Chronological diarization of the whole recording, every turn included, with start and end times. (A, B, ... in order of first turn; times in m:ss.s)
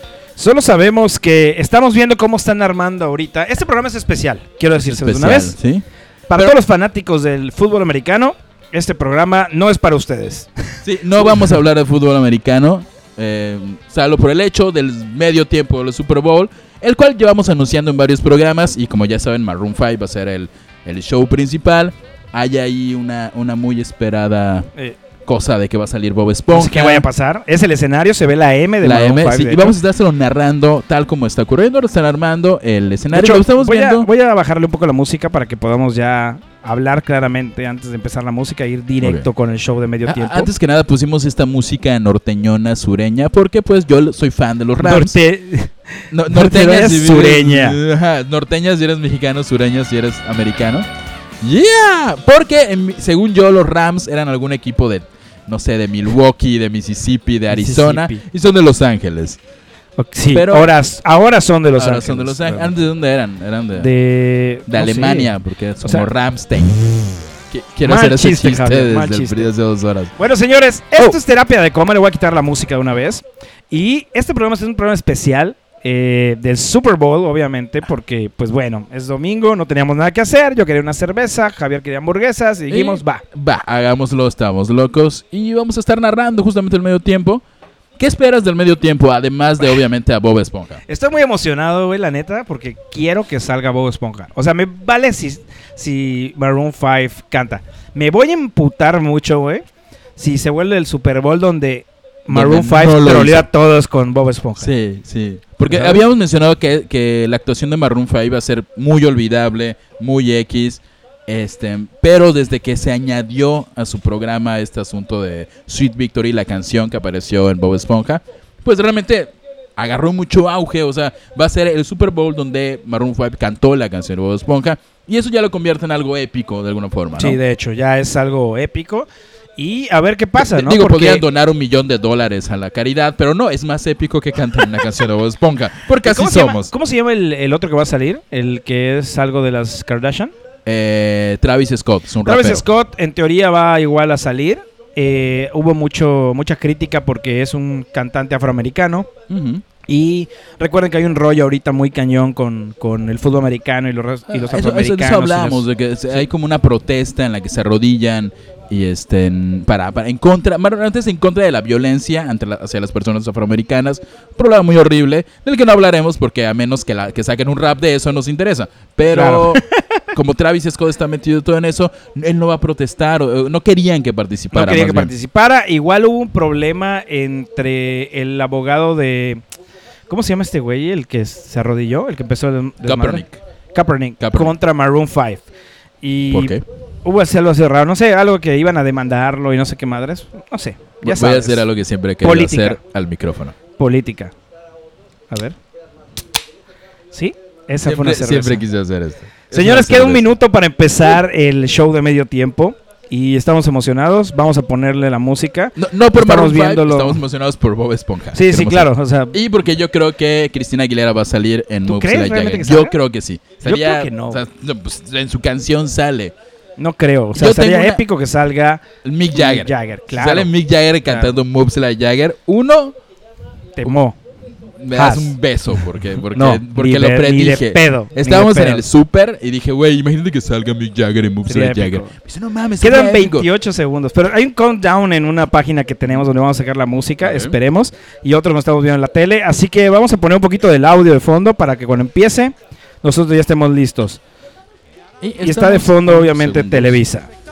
0:00.4-0:05.6 A
0:04.8-0:06.6 B
0:06.3-0:11.3 A
0:10.8-0:24.7 B
0:25.2-0:27.1 B
0:26.5-0:29.7 A
0:28.8-0:34.1 B
0:33.1-0:40.5 A
0:39.0-0:39.3 B
0:40.0-0:45.2 B
0:44.8-0:47.8 A
0:46.1-0:50.9 B
0:51.4-0:59.4 B
0:57.5-0:58.2 A
1:00.0-1:02.7 A
1:00.3-1:00.7 B
1:01.7-1:03.9 B
1:03.8-1:05.3 A
1:04.6-1:06.8 B
1:05.8-1:06.1 A
1:07.5-1:10.1 B
1:07.8-1:09.5 A
1:10.2-1:23.2 A
1:22.7-1:27.4 B
1:28.0-1:30.8 B
1:30.9-1:39.6 A
1:40.2-1:44.7 A
1:42.3-1:43.5 B
1:44.6-2:07.4 B
1:45.6-1:46.0 A
2:07.2-2:11.2 A
2:10.4-2:16.7 B
2:16.0-2:20.3 A
2:20.6-2:22.6 B
2:22.2-2:29.1 A
2:29.3-2:29.6 B
2:29.9-2:36.2 A
2:34.3-2:55.1 B
2:49.1-2:50.0 A
2:54.5-2:59.4 A
3:00.1-3:05.4 A
3:02.8-3:03.4 B
3:04.2-3:04.5 B
3:06.0-3:11.6 A
3:06.3-3:06.6 B
3:11.0-3:13.6 B
3:12.2-3:12.8 A
3:13.8-3:14.3 A
3:15.3-3:15.6 A
3:17.1-3:18.6 A
3:17.8-3:20.3 B
3:19.5-3:27.2 A
3:25.8-3:36.3 B
3:28.3-3:29.4 A
3:31.8-3:33.0 A
3:33.6-3:34.4 A
3:36.8-3:40.5 A
3:37.3-3:38.0 B
3:39.0-3:43.0 B
3:41.0-3:41.3 A
3:43.8-3:44.2 A
3:44.8-3:53.5 B
3:44.9-3:45.3 A
3:46.3-3:48.8 A
3:51.5-3:52.1 A
3:52.8-4:04.2 A
3:57.2-3:57.6 B
4:05.2-4:07.0 B
4:05.4-4:07.3 A